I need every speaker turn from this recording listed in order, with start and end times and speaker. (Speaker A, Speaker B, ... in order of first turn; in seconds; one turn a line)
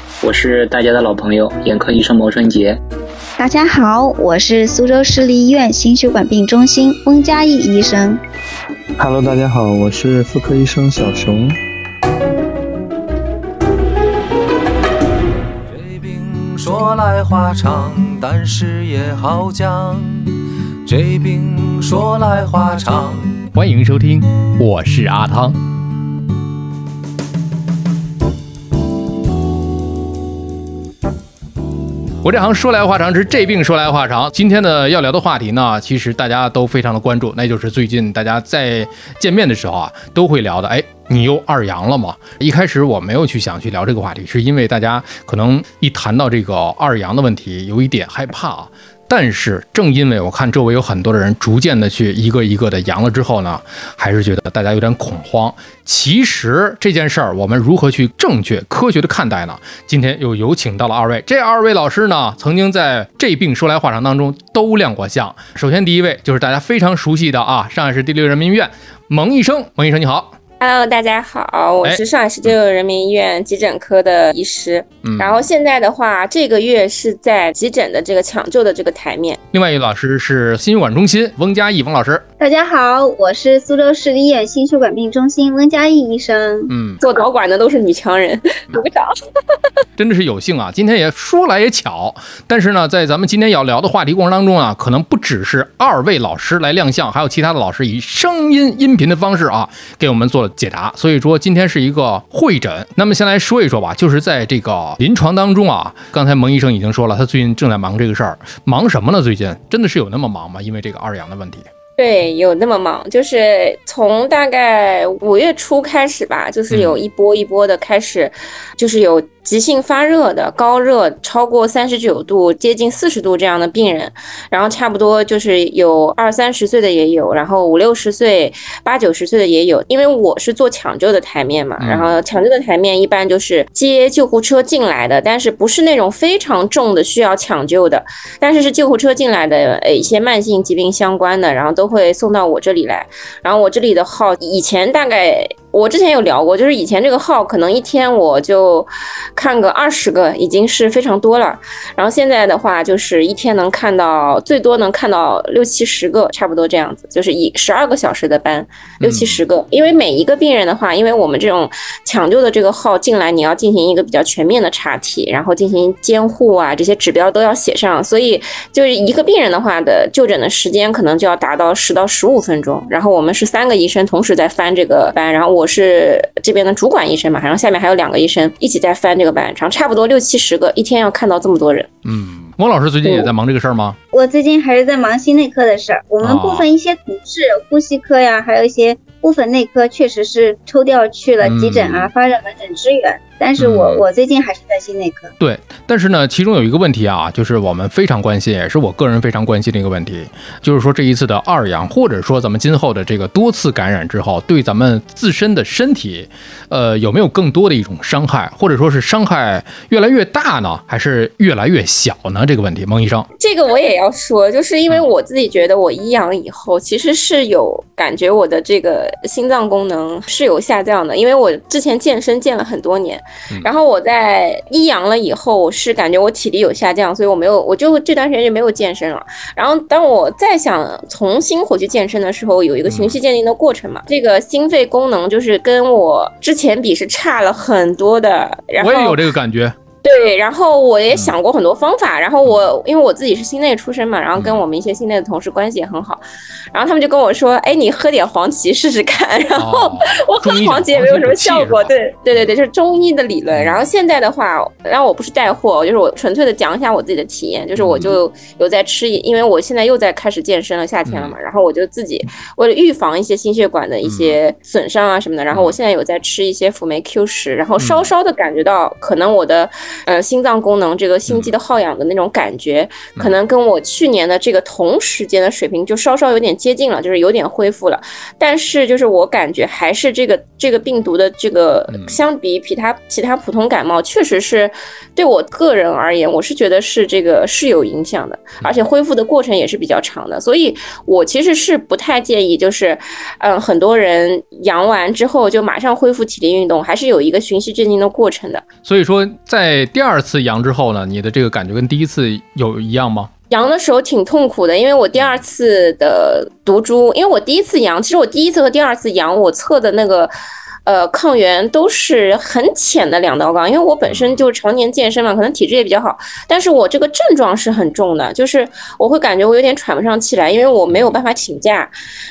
Speaker A: 0.2-2.8
Speaker B: 3.4-8.2
Speaker C: 9.0-11.6
Speaker D: 15.7-20.1
Speaker D: 20.9-23.4
Speaker E: 23.5-25.6
Speaker E: 32.2-70.4
Speaker F: 70.6-79.4
Speaker E: 71.8-72.5
Speaker E: 75.0-75.5
Speaker E: 79.5-82.2
Speaker B: 82.4-86.7
Speaker E: 86.7-87.0
Speaker F: 87.0-89.1
Speaker E: 90.0-111.7
Speaker F: 112.0-181.9
Speaker E: 116.7-117.0
Speaker E: 131.8-132.2
Speaker E: 159.0-159.4
Speaker E: 182.1-184.0
Speaker F: 183.1-183.3
Speaker B: 184.1-195.3
Speaker E: 186.2-186.7
Speaker E: 191.4-192.1
Speaker E: 193.6-194.0
Speaker E: 195.4-213.3
Speaker F: 213.4-239.2
Speaker E: 232.9-233.2
Speaker E: 238.8-239.8
Speaker F: 240.0-246.2
Speaker E: 244.4-244.6
Speaker F: 246.7-298.6
Speaker E: 249.6-251.9
Speaker E: 253.5-253.8
Speaker E: 257.8-258.2
Speaker E: 261.1-261.4
Speaker E: 264.1-264.4
Speaker E: 265.5-265.8
Speaker E: 267.8-268.1
Speaker E: 271.3-271.5
Speaker E: 281.9-282.2
Speaker E: 298.9-303.3
Speaker F: 303.5-310.3
Speaker E: 305.2-305.4
Speaker F: 310.9-321.9
Speaker E: 314.1-314.4